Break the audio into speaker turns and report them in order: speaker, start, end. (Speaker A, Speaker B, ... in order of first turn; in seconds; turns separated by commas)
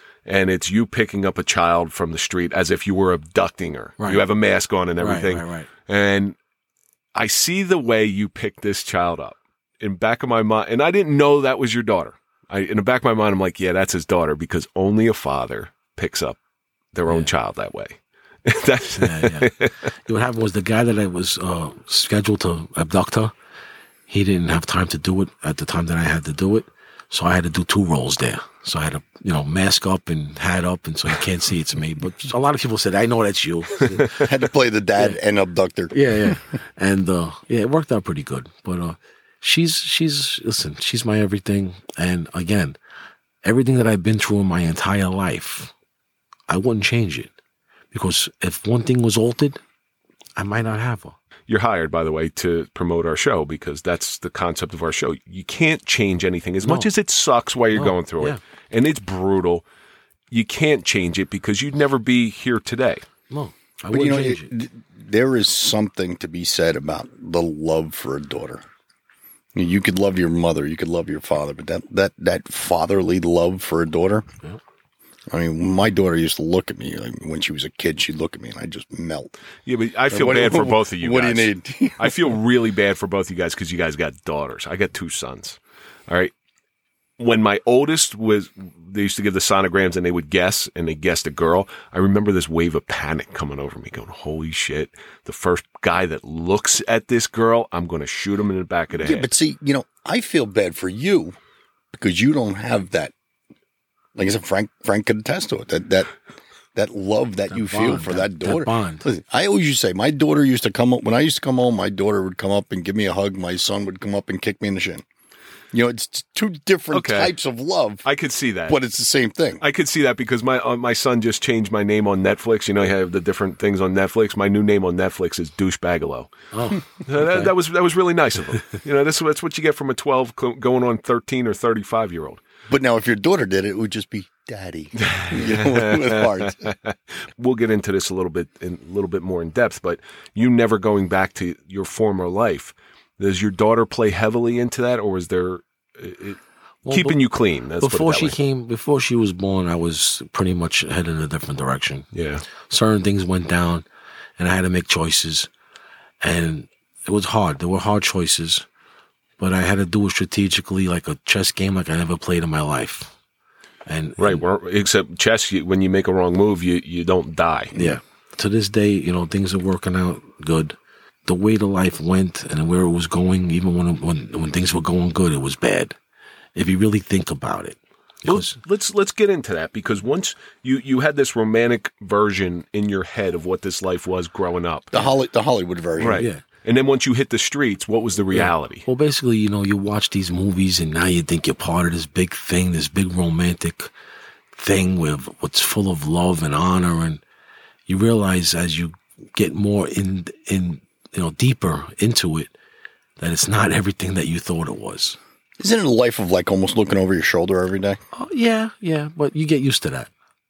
Speaker A: 0.2-6.4, Speaker B: 4.0-4.3, Speaker B: 5.0-5.7, Speaker A: 7.1-16.4, Speaker A: 16.9-19.9, Speaker B: 19.0-19.5, Speaker B: 20.0-23.3, Speaker B: 24.1-34.2, Speaker C: 34.2-36.4, Speaker B: 35.9-42.8, Speaker B: 43.4-45.7, Speaker B: 46.5-47.3, Speaker B: 47.9-49.6, Speaker B: 50.4-51.1, Speaker A: 51.5-59.6, Speaker B: 56.6-56.9, Speaker B: 57.7-58.4, Speaker A: 60.3-63.0, Speaker B: 63.3-64.5, Speaker C: 63.9-68.6, Speaker C: 69.5-74.2, Speaker C: 75.3-79.3, Speaker A: 79.7-86.3, Speaker C: 80.1-82.1, Speaker A: 87.2-99.3, Speaker C: 99.0-101.3, Speaker C: 101.9-103.1, Speaker C: 104.2-106.1, Speaker C: 106.7-115.0, Speaker B: 107.5-109.0, Speaker C: 115.7-118.0, Speaker A: 116.9-117.3, Speaker A: 118.0-118.8, Speaker C: 118.7-119.6, Speaker A: 119.6-126.3, Speaker B: 126.5-127.5, Speaker A: 126.9-132.4, Speaker C: 132.7-136.6, Speaker A: 135.0-148.3, Speaker B: 146.8-147.2, Speaker B: 147.8-152.1, Speaker A: 152.1-152.4, Speaker B: 152.7-153.8, Speaker B: 154.4-155.5, Speaker B: 156.2-158.7, Speaker B: 159.4-163.1, Speaker B: 163.8-164.4, Speaker A: 164.2-167.7, Speaker B: 167.7-176.0, Speaker B: 176.5-178.6, Speaker A: 178.2-185.1, Speaker C: 184.9-186.2, Speaker A: 186.0-188.8, Speaker B: 186.1-186.4, Speaker B: 188.3-193.9, Speaker B: 194.5-197.2, Speaker B: 197.9-202.5, Speaker B: 203.2-205.2, Speaker C: 205.6-208.0, Speaker B: 208.1-210.1